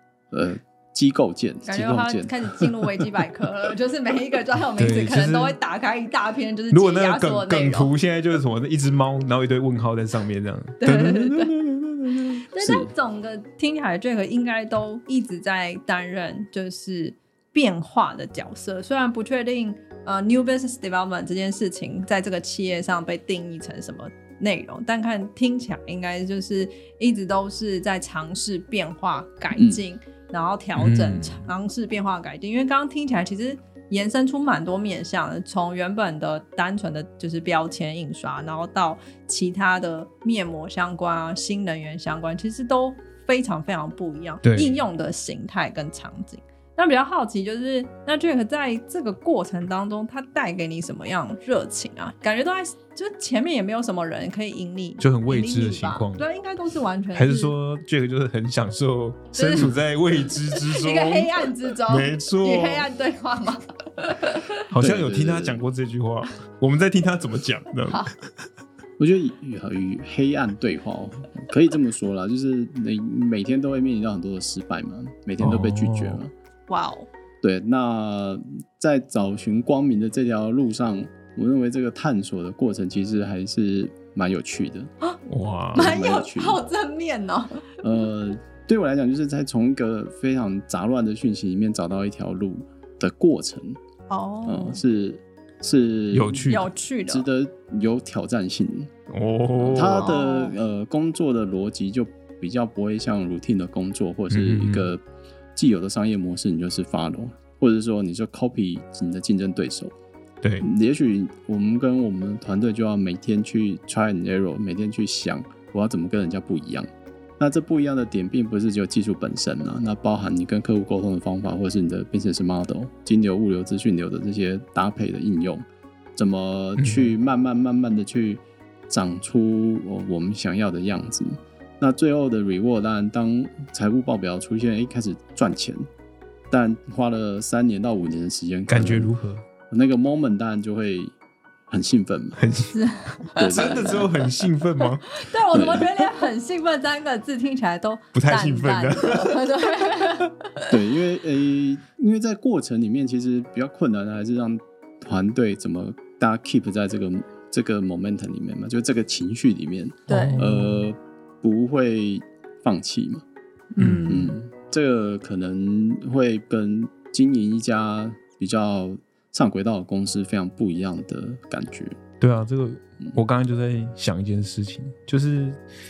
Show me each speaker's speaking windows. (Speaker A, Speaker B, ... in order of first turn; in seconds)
Speaker A: 0.3-2.9, 12.6-12.9, 29.5-29.8, 64.8-65.6, 69.0-76.3, 77.4-84.9, 85.7-86.6, 87.8-93.8, 94.5-96.5, 97.1-98.9, 99.6-105.0, 105.5-109.9, 110.6-135.8, 136.5-139.1, 139.7-141.1, 141.7-142.4, 143.4-144.3, 145.5-145.9, 150.7-163.2, 164.1-172.0
Speaker B: 1.7-7.9, 10.8-11.5, 12.4-57.5, 59.3-59.8, 60.5-64.6, 76.7-77.1, 85.8-87.7, 94.1-94.8, 96.5-97.3, 99.8-100.5, 142.7-143.6, 145.1-150.7, 160.1-160.5, 163.7-164.3
Speaker C: 4.8-5.6, 6.7-12.4, 30.8-31.5, 44.4-44.8, 55.0-56.3, 57.1-62.9, 64.7-68.1, 75.4-76.2, 85.3-85.9, 96.1-96.7, 99.1-100.1, 104.3-104.9, 110.4-110.7, 126.8-127.1, 138.7-139.4, 142.4-142.8, 143.4-145.2, 148.1-149.4, 160.1-160.9, 163.8-164.2, 172.2-175.6